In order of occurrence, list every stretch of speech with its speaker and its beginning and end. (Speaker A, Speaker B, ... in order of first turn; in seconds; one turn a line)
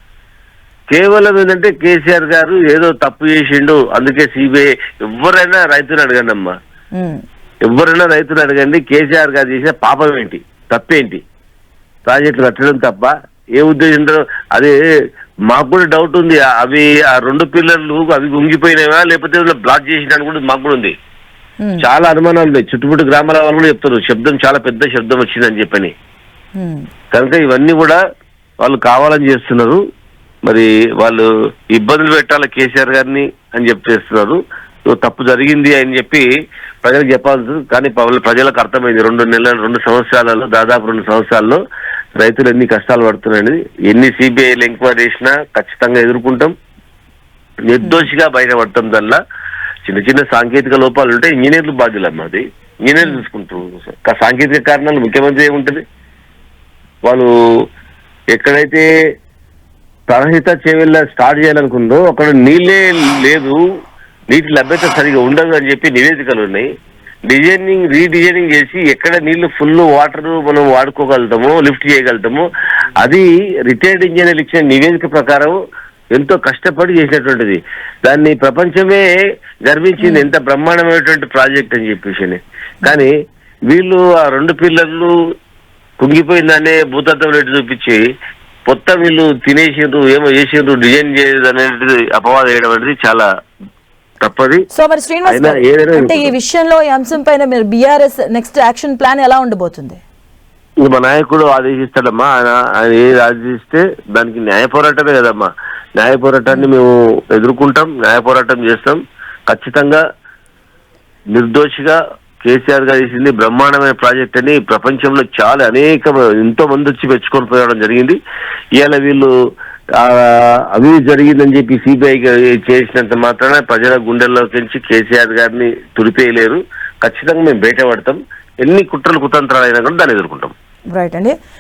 Speaker A: 0.9-6.5
Speaker B: 7.0-7.2
Speaker A: 7.7-11.2
Speaker A: 12.1-14.7
Speaker A: 15.5-20.9
Speaker A: 21.8-25.9
Speaker B: 26.6-26.9
Speaker A: 27.1-28.0
Speaker A: 28.6-29.8
Speaker A: 30.5-36.3
Speaker A: 36.8-41.6
Speaker A: 42.2-46.5
Speaker A: 47.7-49.2
Speaker B: 47.8-48.1
Speaker A: 49.9-55.8
Speaker A: 58.3-58.9
Speaker A: 60.1-63.6
Speaker A: 64.3-66.7
Speaker A: 67.3-72.5
Speaker A: 73.0-75.6
Speaker A: 76.2-79.0
Speaker A: 79.7-83.1
Speaker B: 80.0-80.3
Speaker A: 83.7-85.1
Speaker A: 86.0-88.0
Speaker A: 88.7-93.3
Speaker A: 94.2-94.6
Speaker B: 94.7-100.0
Speaker A: 95.3-96.3
Speaker A: 100.8-110.0
Speaker A: 111.3-118.2
Speaker A: 118.8-119.3
Speaker A: 120.0-130.5
Speaker B: 130.9-131.4